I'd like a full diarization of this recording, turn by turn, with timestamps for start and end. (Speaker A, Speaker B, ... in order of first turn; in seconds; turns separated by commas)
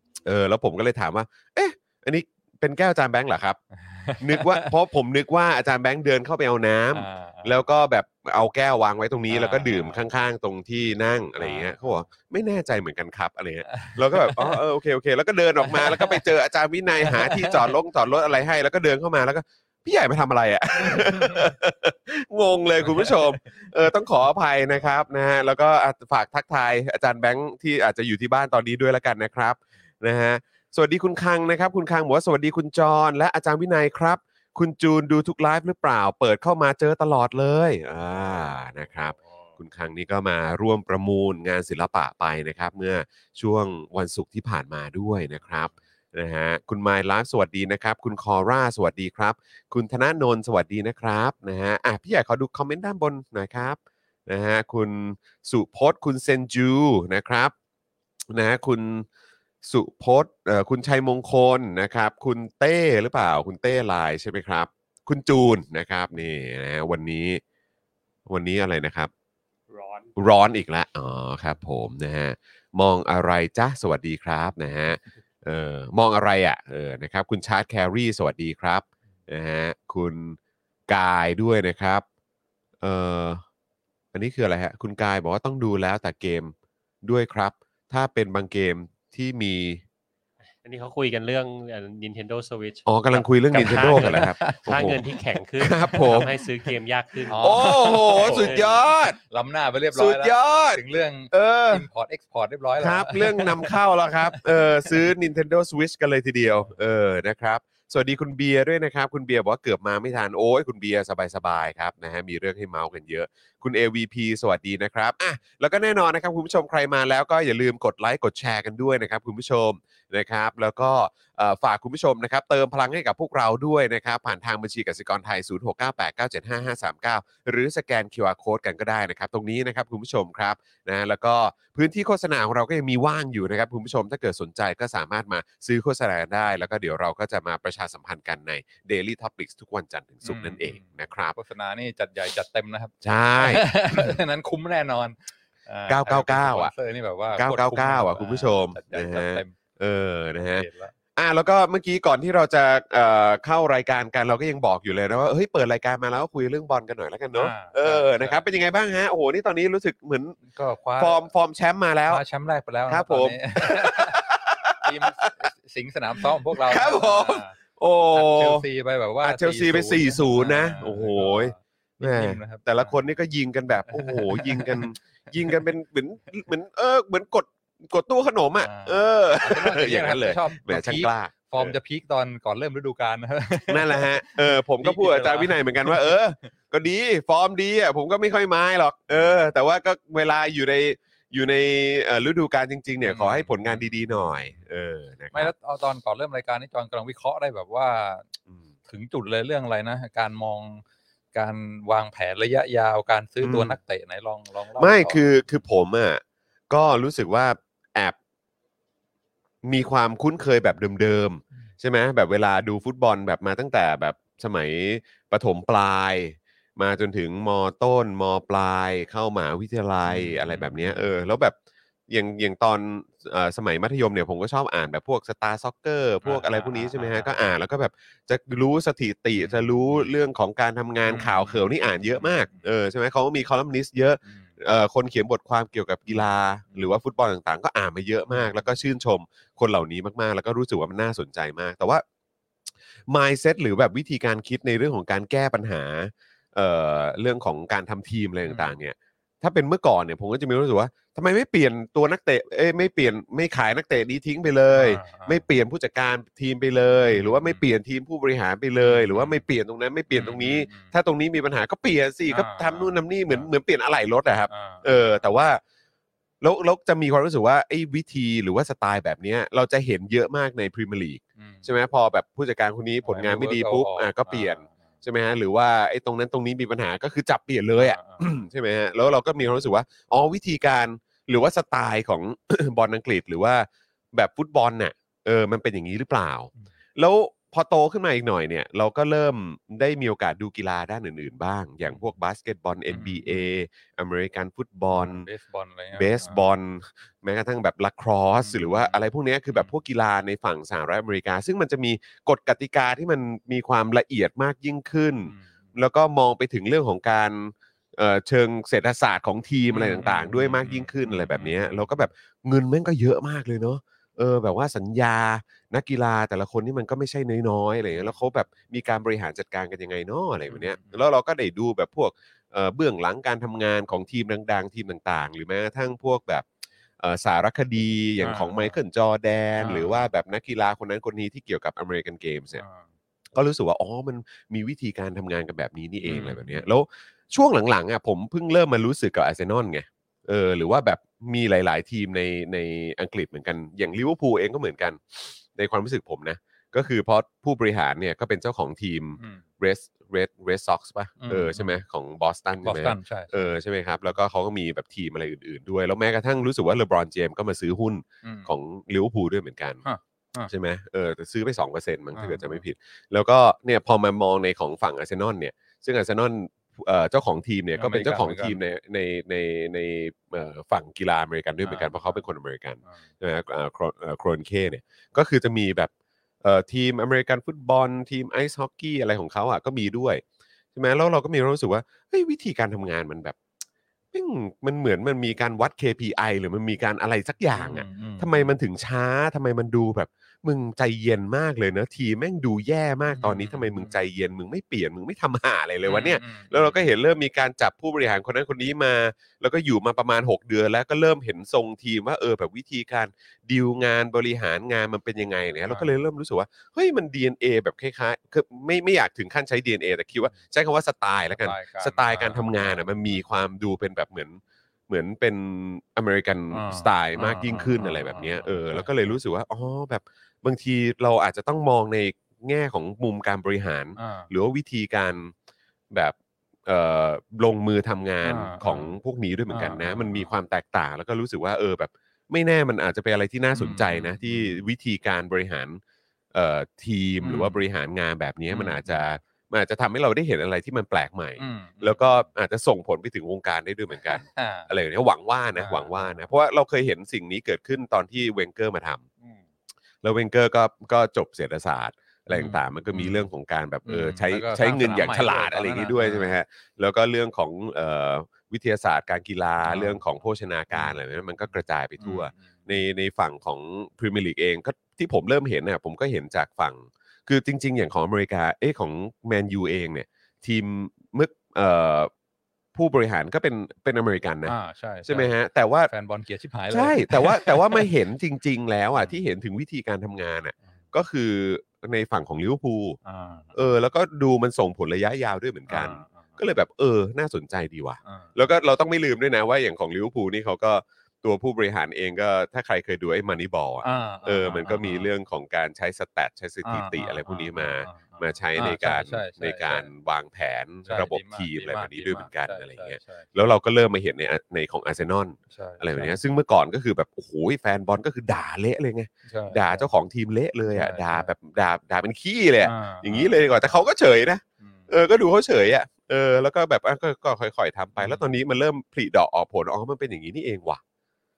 Speaker A: 0.2-3.6, Speaker B: 3.8-4.7, Speaker A: 4.2-57.5, Speaker B: 6.9-7.6, Speaker B: 9.3-10.1, Speaker B: 11.4-12.0, Speaker B: 13.7-14.6, Speaker B: 15.7-16.2, Speaker B: 17.0-17.7, Speaker B: 22.8-23.2, Speaker A: 58.3-59.1, Speaker A: 59.6-67.4, Speaker A: 68.3-69.1, Speaker C: 69.7-70.1, Speaker A: 70.2-82.0, Speaker A: 82.8-83.4, Speaker A: 84.1-89.8, Speaker C: 90.6-98.8, Speaker A: 92.9-95.0, Speaker B: 93.6-94.8, Speaker A: 95.6-96.3, Speaker B: 97.3-98.6, Speaker A: 97.3-99.2, Speaker B: 99.3-104.9, Speaker A: 100.0-101.9, Speaker A: 102.8-141.4, Speaker B: 140.2-149.5, Speaker A: 143.0-144.2, Speaker A: 145.9-146.7, Speaker A: 147.4-160.4, Speaker B: 150.5-150.9, Speaker B: 157.3-158.4, Speaker B: 160.5-161.3, Speaker A: 161.0-162.2, Speaker B: 162.1-164.3, Speaker A: 162.9-165.5, Speaker B: 164.8-167.6, Speaker A: 166.5-168.7, Speaker B: 168.1-172.9, Speaker A: 169.2-181.8, Speaker B: 173.9-174.9, Speaker B: 178.6-186.2, Speaker A: 183.7-195.5, Speaker B: 189.1-189.4, Speaker B: 193.0-194.6, Speaker B: 195.3-198.3, Speaker B: 198.9-200.8, Speaker B: 201.3-205.2, Speaker A: 203.4-203.8, Speaker A: 204.8-208.2, Speaker A: 209.6-221.6, Speaker B: 220.1-221.1, Speaker A: 222.1-242.0, Speaker B: 226.2-227.3, Speaker B: 229.4-230.1, Speaker B: 231.1-232.7, Speaker B: 234.3-234.6, Speaker B: 236.1-236.9, Speaker B: 238.3-238.6, Speaker A: 243.1-265.6, Speaker B: 248.5-248.8, Speaker B: 254.7-255.4, Speaker B: 257.1-257.6, Speaker B: 258.8-259.4, Speaker B: 260.1-260.9, Speaker B: 262.3-263.5, Speaker B: 264.5-265.3, Speaker A: 266.4-295.3, Speaker B: 271.4-271.7, Speaker B: 273.0-274.9, Speaker B: 277.7-278.3, Speaker B: 292.9-293.5, Speaker B: 294.9-296.5, Speaker A: 295.9-326.5, Speaker B: 298.4-299.7, Speaker B: 305.2-305.7, Speaker B: 309.7-312.1, Speaker B: 320.5-321.0, Speaker A: 327.0-332.6, Speaker B: 328.2-328.8, Speaker B: 329.6-330.1, Speaker B: 332.6-332.9, Speaker A: 333.3-359.8, Speaker B: 336.0-336.7, Speaker B: 349.2-349.4, Speaker B: 351.2-351.8, Speaker B: 352.6-353.6, Speaker B: 358.2-358.5, Speaker B: 359.8-360.5, Speaker A: 360.5-375.9, Speaker B: 362.1-362.6, Speaker B: 367.8-368.6, Speaker B: 371.6-372.2, Speaker A: 376.4-380.2, Speaker A: 380.8-383.4, Speaker A: 384.1-425.3, Speaker B: 387.6-388.6, Speaker B: 393.1-394.0, Speaker B: 395.9-396.9, Speaker B: 411.3-413.3, Speaker B: 416.5-419.1, Speaker B: 424.0-424.3, Speaker A: 425.9-435.8, Speaker B: 428.2-428.9, Speaker B: 429.5-430.3, Speaker B: 433.5-434.6, Speaker A: 436.3-449.1, Speaker B: 437.2-437.6, Speaker B: 438.5-439.0, Speaker B: 441.4-442.3, Speaker B: 444.0-444.7, Speaker B: 445.6-446.3, Speaker A: 450.0-472.1, Speaker B: 452.3-453.3, Speaker B: 453.9-456.4, Speaker B: 459.6-460.0, Speaker B: 460.7-462.7, Speaker A: 472.8-475.9, Speaker B: 474.5-475.3, Speaker B: 475.9-477.9, Speaker A: 476.7-483.0, Speaker B: 483.0-483.6, Speaker A: 483.6-520.8, Speaker B: 485.7-486.4, Speaker B: 488.0-488.4, Speaker B: 493.8-495.1, Speaker B: 496.6-499.9, Speaker B: 500.9-503.3, Speaker B: 505.5-506.2, Speaker B: 509.3-509.9, Speaker B: 510.7-511.3, Speaker B: 512.6-513.9, Speaker B: 514.6-514.9, Speaker B: 518.0-518.2